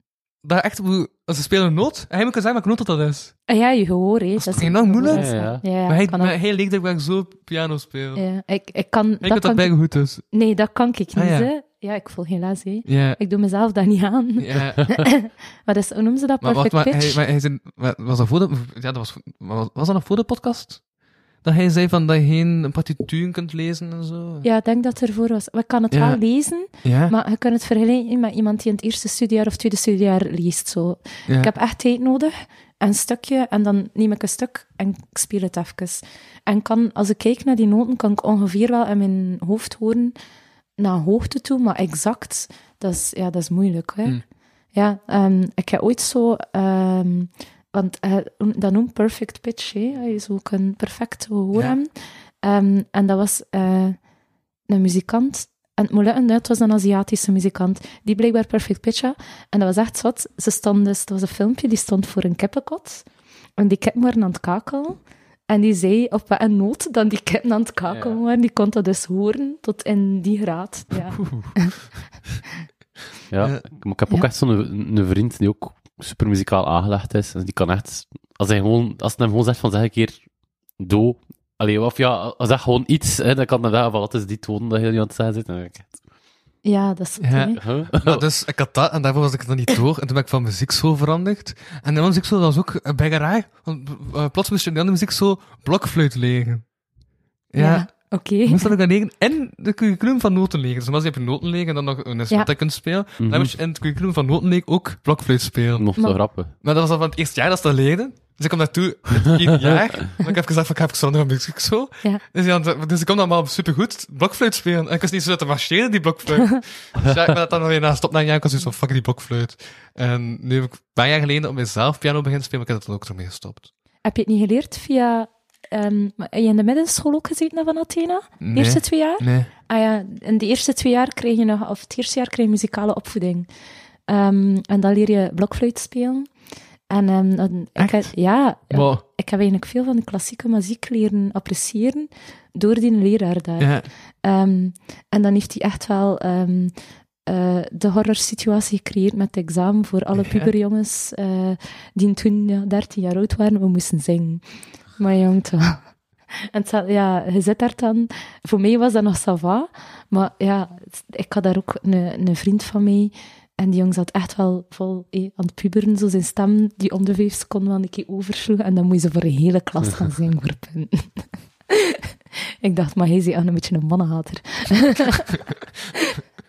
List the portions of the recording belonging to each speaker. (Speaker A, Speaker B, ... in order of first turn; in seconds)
Speaker A: 0.4-3.4, 4.4-8.2, 9.2-10.3, 11.1-11.5, 12.8-13.2, 14.4-15.2, 16.4-20.8, 21.4-24.4, 25.9-27.1, 51.5-51.8, 71.1-71.8, 87.2-96.7, 97.5-123.7, 128.4-129.5, 137.8-139.0, 143.6-143.9, 150.1-150.5
Speaker B: 3.5-6.3, 8.1-17.2, 24.4-40.1, 40.8-54.0, 54.7-71.7, 86.6-87.6, 97.6-98.7, 124.0-133.5, 134.1-136.3, 136.9-155.9, 156.5-172.1, 172.6-175.4
Speaker C: 5.1-5.6, 67.9-68.2, 73.3-86.1, 87.6-88.2, 103.2-103.5, 105.8-106.5